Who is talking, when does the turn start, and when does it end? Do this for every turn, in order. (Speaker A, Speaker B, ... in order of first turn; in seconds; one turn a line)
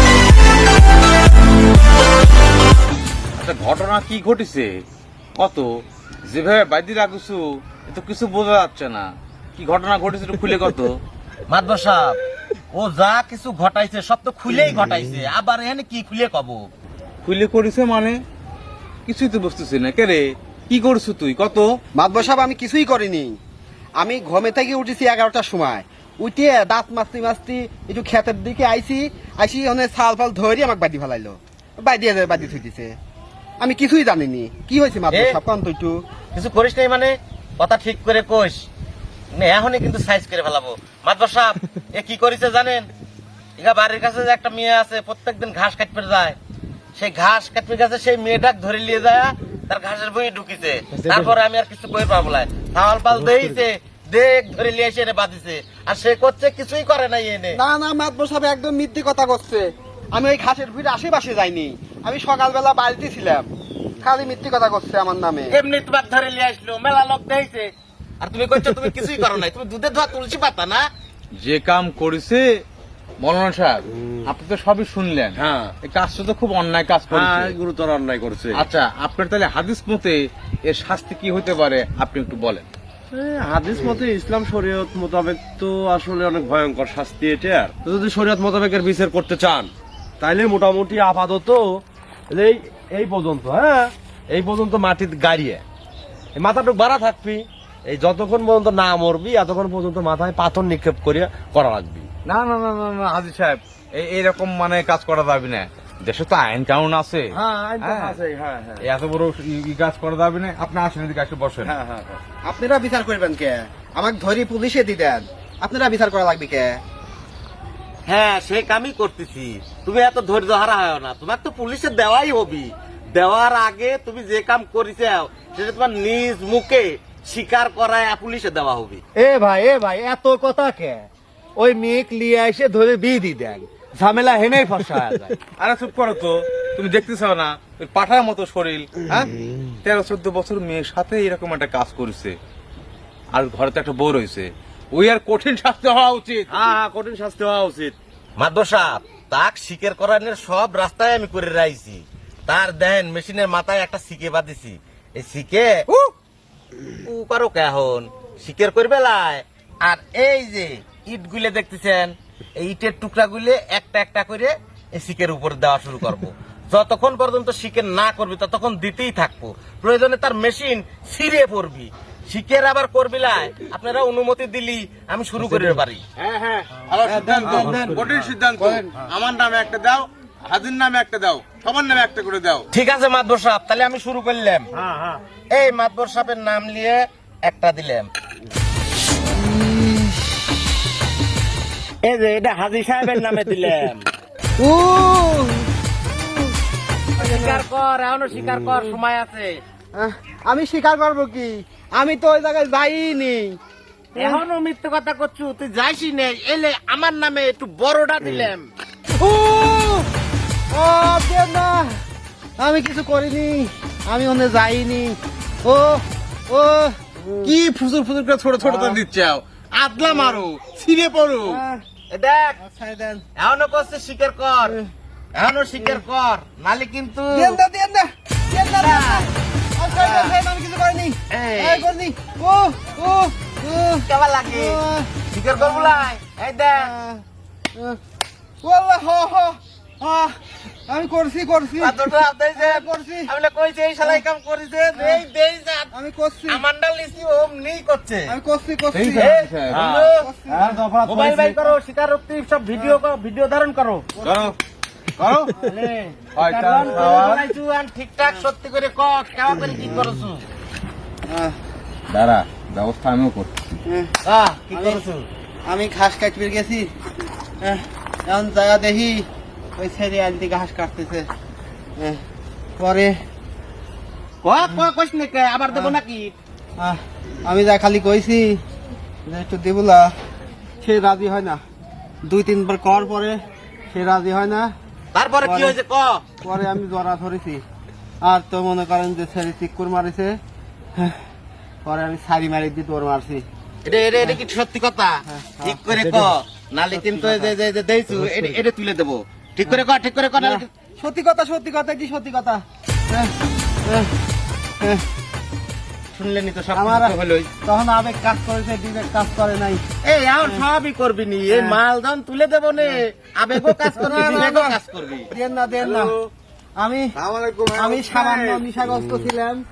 Speaker A: 3.4-4.8
Speaker A: 5.3-11.0
Speaker B: 11.5-12.2
Speaker B: 12.7-16.6
Speaker A: 17.2-18.2
Speaker A: 19.1-21.8
Speaker C: 21.9-23.4
Speaker C: 24.0-32.9
Speaker C: 33.6-36.0
Speaker B: 35.1-35.4
Speaker B: 36.3-38.7
Speaker B: 39.3-42.9
Speaker B: 43.6-46.4
Speaker B: 47.0-57.6
Speaker C: 57.5-65.5
Speaker B: 65.5-67.7
Speaker B: 68.2-70.8
Speaker A: 71.4-72.6
Speaker A: 73.2-77.5
Speaker D: 75.3-75.7
Speaker D: 77.1-78.6
Speaker A: 78.5-82.7
Speaker D: 83.1-95.6
Speaker D: 96.3-102.1
Speaker A: 102.2-108.2
Speaker D: 107.3-108.8
Speaker A: 108.8-111.7
Speaker D: 111.6-112.2
Speaker C: 112.4-116.8
Speaker B: 118.1-129.0
Speaker E: 129.2-131.0
Speaker E: 131.6-134.3
Speaker D: 133.9-135.3
Speaker A: 135.6-139.0
Speaker A: 139.8-142.3
Speaker A: 143.3-146.5
Speaker D: 146.5-147.9
Speaker B: 148.4-155.8
Speaker B: 157.0-176.0
Speaker A: 176.2-182.7
Speaker C: 177.1-178.0
Speaker B: 177.4-177.8
Speaker D: 177.4-178.0
Speaker B: 182.7-184.7
Speaker D: 184.8-185.2
Speaker B: 185.5-188.1
Speaker C: 189.3-190.4
Speaker B: 192.0-194.0
Speaker C: 194.6-195.7
Speaker C: 197.2-197.6
Speaker B: 197.2-199.6
Speaker C: 198.7-198.9
Speaker C: 199.9-203.6
Speaker C: 204.2-204.4
Speaker B: 204.2-208.7
Speaker C: 209.1-210.1
Speaker C: 210.7-211.9
Speaker C: 212.6-217.5
Speaker A: 217.4-221.6
Speaker C: 218.6-219.0
Speaker C: 220.0-220.4
Speaker C: 221.4-221.8
Speaker B: 222.1-222.6
Speaker C: 222.6-223.2
Speaker B: 223.4-224.8
Speaker B: 225.3-227.6
Speaker C: 225.8-226.0
Speaker C: 227.3-236.1
Speaker B: 228.7-229.3
Speaker B: 229.9-230.4
Speaker B: 231.3-231.9
Speaker B: 234.1-236.9
Speaker C: 236.7-237.2
Speaker C: 238.6-240.3
Speaker C: 240.9-243.3
Speaker B: 241.8-245.9
Speaker C: 244.9-245.2
Speaker C: 245.9-246.6
Speaker B: 246.5-248.3
Speaker C: 248.3-249.3
Speaker A: 248.9-250.1
Speaker B: 249.1-250.2
Speaker C: 250.2-251.7
Speaker B: 251.0-254.1
Speaker C: 252.7-253.0
Speaker C: 254.1-254.5
Speaker A: 254.2-254.5
Speaker A: 255.2-255.6
Speaker B: 255.6-260.4
Speaker A: 256.4-257.5
Speaker C: 256.8-257.2
Speaker C: 259.8-260.1
Speaker C: 261.3-261.5
Speaker A: 262.1-263.7
Speaker C: 263.8-264.1
Speaker B: 264.2-265.3
Speaker C: 264.7-265.0
Speaker C: 265.6-266.9
Speaker C: 267.6-269.2
Speaker C: 269.8-271.2
Speaker C: 272.8-273.1
Speaker B: 274.4-276.3
Speaker C: 275.7-276.0
Speaker C: 276.8-278.6
Speaker C: 279.2-280.1
Speaker C: 280.8-281.6
Speaker C: 282.2-283.3
Speaker C: 283.9-284.7
Speaker B: 285.1-286.2
Speaker C: 285.4-285.8
Speaker C: 286.4-287.6
Speaker C: 288.2-290.4
Speaker C: 291.8-293.4
Speaker B: 293.8-300.6
Speaker C: 295.2-295.9
Speaker C: 296.9-297.5
Speaker C: 300.4-303.3
Speaker C: 303.8-304.1
Speaker B: 306.1-307.5
Speaker C: 306.7-307.1
Speaker C: 307.6-309.8
Speaker B: 310.0-315.3
Speaker C: 311.5-311.8
Speaker C: 313.9-314.8
Speaker C: 315.3-316.1
Speaker A: 315.8-316.1
Speaker C: 316.8-317.1
Speaker A: 317.2-318.6
Speaker C: 317.7-319.6